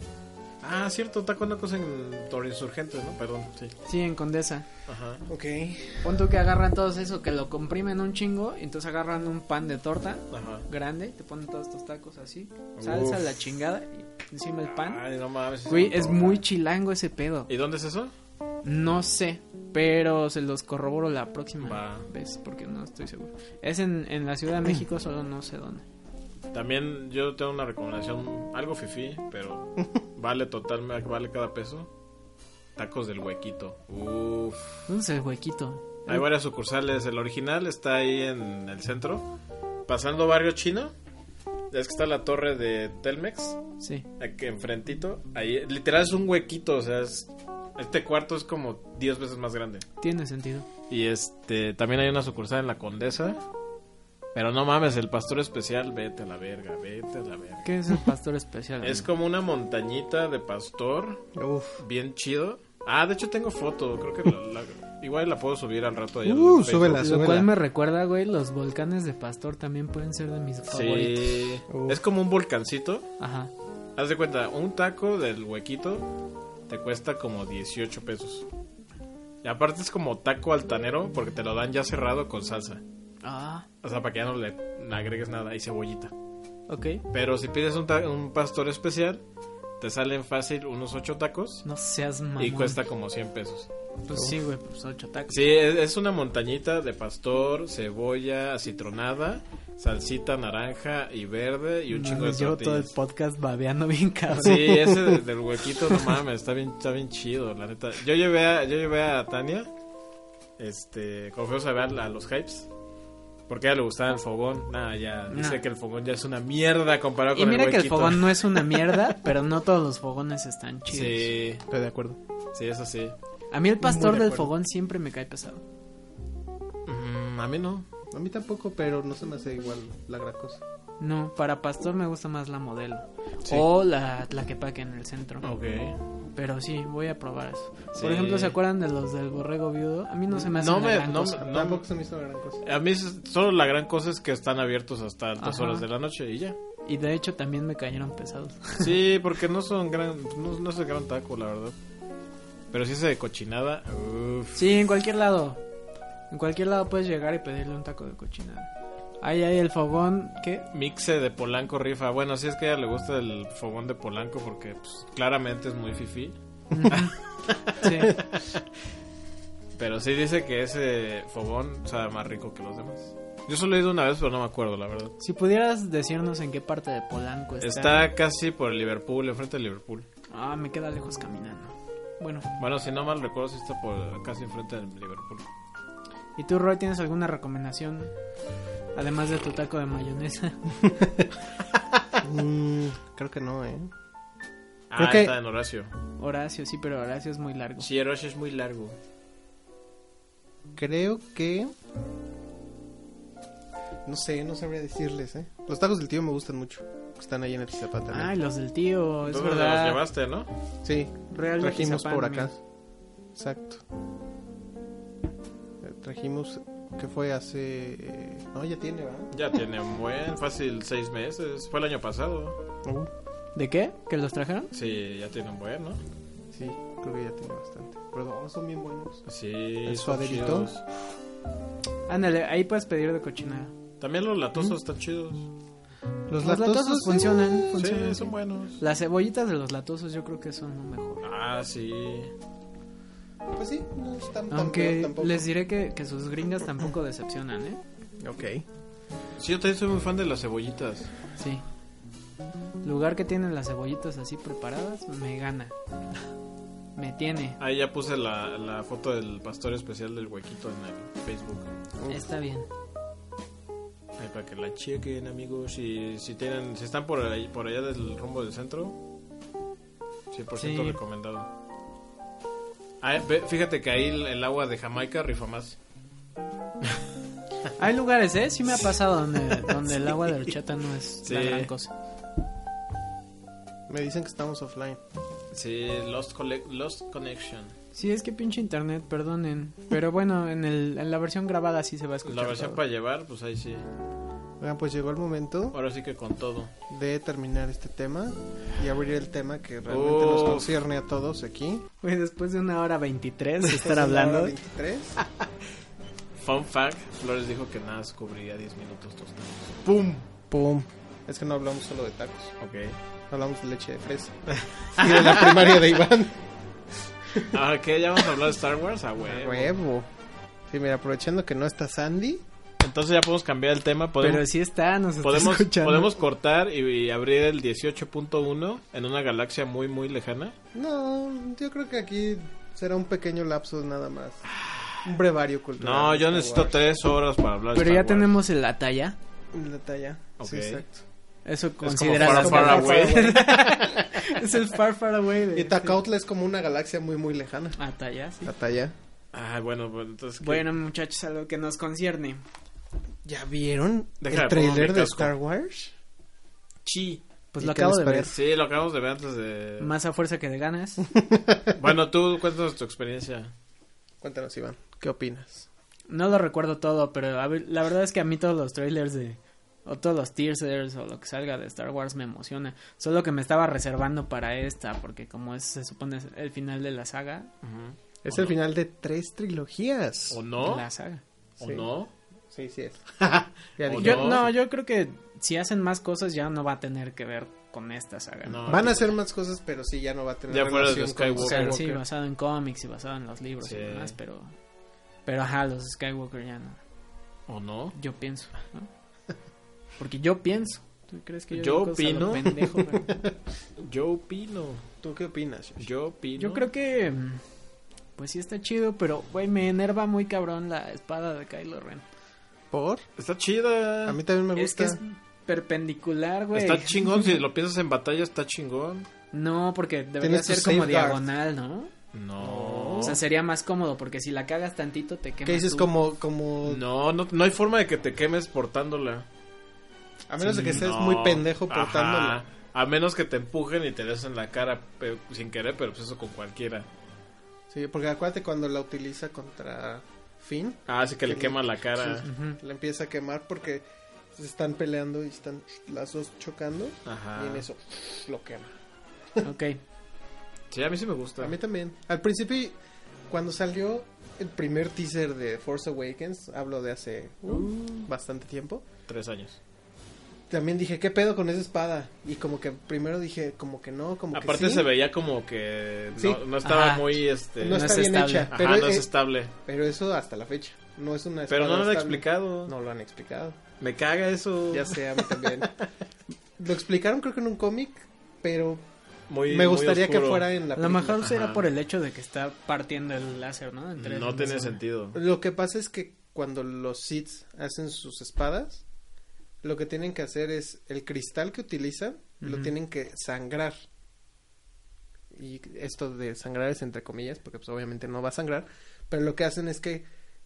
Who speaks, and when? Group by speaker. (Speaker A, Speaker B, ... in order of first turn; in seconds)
Speaker A: 0.6-3.7, 4.9-5.2, 10.3-10.7, 12.8-13.3, 14.7-16.4, 17.5-18.1, 21.6-22.1, 26.5-31.9, 32.8-34.9, 36.1-39.3, 39.9-40.9, 41.7-43.6, 44.2-49.9, 50.9-53.4, 54.4-57.7, 58.8-61.3, 61.8-67.2, 70.7-73.1, 74.0-76.1, 76.7-78.5, 79.4-82.8, 83.8-86.1, 87.1-89.2, 89.8-91.7, 92.4-93.7, 95.3-102.9, 104.4-109.7, 110.6-112.7, 113.5-119.0, 120.9-121.7, 122.5-123.2, 126.9-127.9, 135.4-136.0, 137.9-138.6, 140.4-141.8, 142.6-146.6, 148.8-151.8, 152.7-154.6, 160.7-166.3, 166.9-168.6, 169.8-175.2, 177.6-180.1, 182.6-185.4, 194.9-195.9, 197.8-199.0, 209.3-210.5, 219.3-222.6, 224.7-226.0, 229.3-230.8, 234.0-235.5, 237.8-238.8, 241.2-242.3, 249.4-251.1, 257.6-261.7, 264.2-269.0, 270.3-271.5, 273.0-275.8, 281.2-281.7, 285.5-287.8, 292.2-293.9, 295.7-296.7, 299.9-300.7, 306.4-310.3, 312.6-313.0, 314.5-315.8, 317.5-319.7, 322.8-324.4, 325.2-330.6, 334.5-335.1, 335.8-338.4, 340.4-340.8, 341.8-344.2, 349.3-350.6, 354.2-355.3, 356.9-357.2, 358.3-359.9, 361.7-363.5, 377.6-378.5, 380.3-380.9, 381.6-382.1, 383.2-384.5, 388.5-389.1, 390.5-392.0, 393.6-394.1, 397.5-397.9, 401.5-402.6, 403.8-404.8, 405.8-406.6, 413.2-414.2, 416.5-419.1, 422.1-423.2, 426.6-429.3, 430.6-436.9, 440.9-442.3, 447.1-447.6, 450.7-451.6, 459.1-459.6, 464.3-469.5, 471.5-472.7, 473.8-475.7, 479.3-480.5, 481.2-481.7, 484.0-485.2
Speaker B: 3.9-4.7, 6.0-15.0, 15.7-17.5, 18.6-25.8, 34.9-36.2, 43.8-44.1, 50.0-50.7, 57.6-59.1, 67.0-71.5, 73.2-73.5, 83.2-83.7, 86.7-87.0, 91.7-92.8, 94.1-95.5, 101.9-104.8, 115.3-115.6, 117.3-121.3, 123.5-125.6, 131.0-135.5, 136.3-141.5, 145.4-145.8, 146.8-148.9, 154.6-155.6, 156.3-160.7, 166.7-167.2, 167.7-168.2, 175.2-178.1, 180.3-182.5, 186.4-188.1, 188.9-190.7, 196.2-197.9, 208.1-210.0, 211.3-212.5, 223.6-224.7, 232.1-233.7, 236.4-241.2, 244.5-247.8, 251.4-251.6, 252.8-255.7, 257.0-257.6, 262.1-262.7, 270.6-271.0, 277.8-281.9, 287.9-292.8, 302.0-304.5, 324.2-326.2, 337.7-339.2, 341.5-346.0, 347.8-348.5, 350.4-352.4, 357.5-358.3, 359.8-361.1, 366.1-377.5, 380.6-381.2, 384.0-388.6, 391.4-394.5, 395.3-396.8, 397.9-398.9, 400.0-403.2, 406.4-407.4, 408.2-412.1, 414.6-417.4, 419.3-421.9, 423.0-425.9, 430.4-430.8, 442.2-442.6, 449.4-449.8, 466.6-468.5, 480.8-484.8, 492.4-492.7
Speaker C: 5.3-6.1, 61.4-61.8, 66.2-67.5, 71.7-72.0, 104.5-105.2, 121.7-122.2, 123.8-124.5, 128.1-130.6, 141.4-142.6, 190.8-191.3, 192.2-193.9, 195.0-195.3, 200.8-201.7, 204.1-208.3, 210.8-212.6, 213.3-213.8, 215.8-219.3, 222.8-223.1, 226.5-229.2, 229.8-230.7, 236.3-237.9, 243.6-245.5, 248.2-248.7, 262.0-262.2, 283.9-285.0, 294.6-295.8, 296.9-301.9, 303.6-305.2, 310.5-312.5, 313.3-314.3, 314.9-316.4, 317.3-317.6, 319.2-320.1, 320.7-322.4, 330.7-334.4, 335.0-336.8, 339.5-341.0, 342.1-343.5, 345.5-347.8, 348.4-348.9, 353.2-355.9, 357.6-358.3, 361.2-361.7, 364.2-365.7, 378.2-380.4, 381.6-381.9, 382.5-383.1, 383.8-384.5, 388.6-391.9, 402.6-403.3, 405.0-405.9, 412.7-413.1, 414.1-415.0, 420.2-421.2, 422.4-423.2, 425.4-426.8, 430.3-432.4, 437.7-448.8, 451.4-452.8, 453.3-458.9, 460.5-464.9, 466.2-466.4, 467.6-469.1, 469.6-473.6, 474.7-475.7, 476.6-478.8, 479.5-481.2, 485.1-488.8, 489.6-493.8, 495.3-500.1